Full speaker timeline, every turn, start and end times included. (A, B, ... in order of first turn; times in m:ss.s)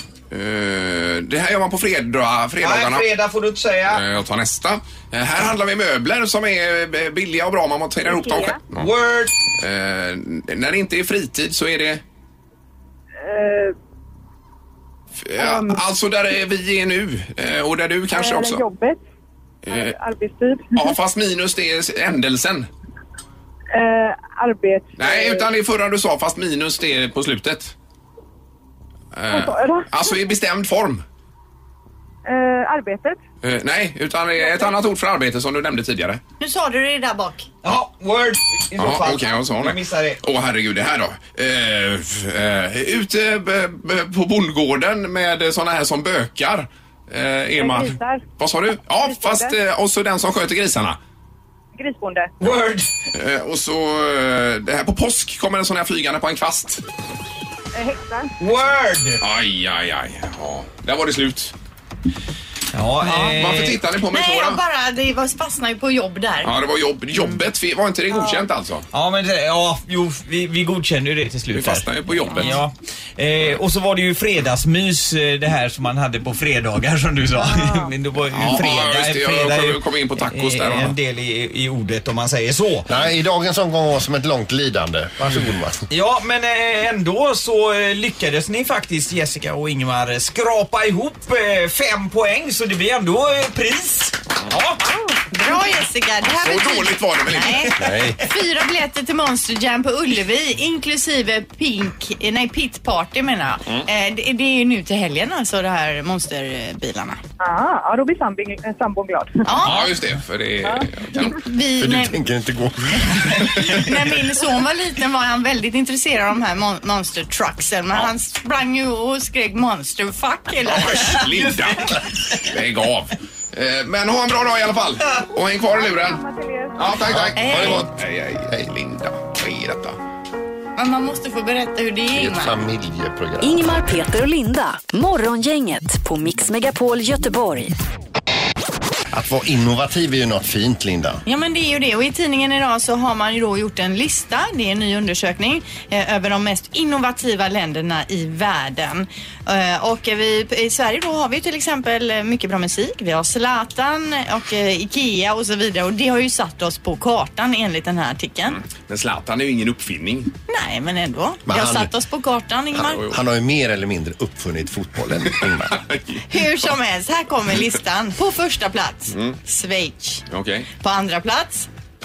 0:00.3-0:03.1 A
0:02.6-0:04.0 B
0:03.9-0:08.9 A
0:08.0-0:08.6 C
0:08.7-0:09.3 B
0:09.6-0:12.0 A
0:13.2-0:13.8 C
0:15.2-0:18.6 A
0:15.4-0:15.8 C
0:18.1-0:19.0 C
0:19.7-0:20.0 A
0:19.7-0:21.0 C
0:20.7-0:22.7 A
0:23.7-0:25.5 C
0:25.0-0:27.7 A
0:29.1-0:31.0 A
0:29.3-0:30.2 C
0:32.2-0:33.2 C
0:33.4-0:36.2 A
0:34.4-0:34.8 C
0:36.4-0:37.5 D
0:37.6-0:40.2 B
0:38.8-0:51.0 A
0:47.6-0:48.2 C
0:49.0-0:49.6 C
0:51.8-0:52.4 C
0:52.4-0:52.9 B
0:53.1-0:56.8 A
0:57.8-0:58.3 C
0:58.4-0:59.2 B
0:59.2-1:01.5 A
1:02.7-1:03.8 B
1:03.0-1:03.4 D
1:03.3-1:04.6 A
1:04.1-1:06.5 D
1:06.4-1:08.8 A
1:07.2-1:07.4 D
1:08.1-1:08.5 D
1:08.9-1:22.9 B
1:11.5-1:12.6 A
1:17.4-1:17.9 C
1:18.3-1:21.0 A
1:22.9-1:25.8 E
1:25.9-1:34.8 B
1:35.3-1:47.2 D
1:36.3-1:38.0 A
1:37.8-1:38.2 E
1:47.4-1:49.6 C
1:49.5-1:49.9 D
1:49.6-1:51.4 A
1:50.6-1:50.9 C
1:51.3-1:52.2 D
1:51.8-1:53.7 E
1:53.4-2:01.3 D
2:00.7-2:06.2 A
2:01.2-2:02.3 B
2:05.7-2:07.1 C
2:06.8-2:10.0 A
2:07.1-2:07.9 E
2:07.4-2:07.9 D
2:10.8-2:12.6 D
2:12.1-2:13.9 E
2:13.4-2:17.7 F
2:19.1-2:21.2 E
2:21.3-2:38.6 D
2:38.5-2:40.3 A
2:40.5-2:43.0 D
2:41.5-2:41.9 E
2:42.8-2:43.2 A
2:42.9-2:45.8 E
2:45.7-2:46.2 A
2:46.3-2:50.2 D
2:49.1-2:49.4 A
2:50.3-2:50.7 A
2:50.8-2:51.7 D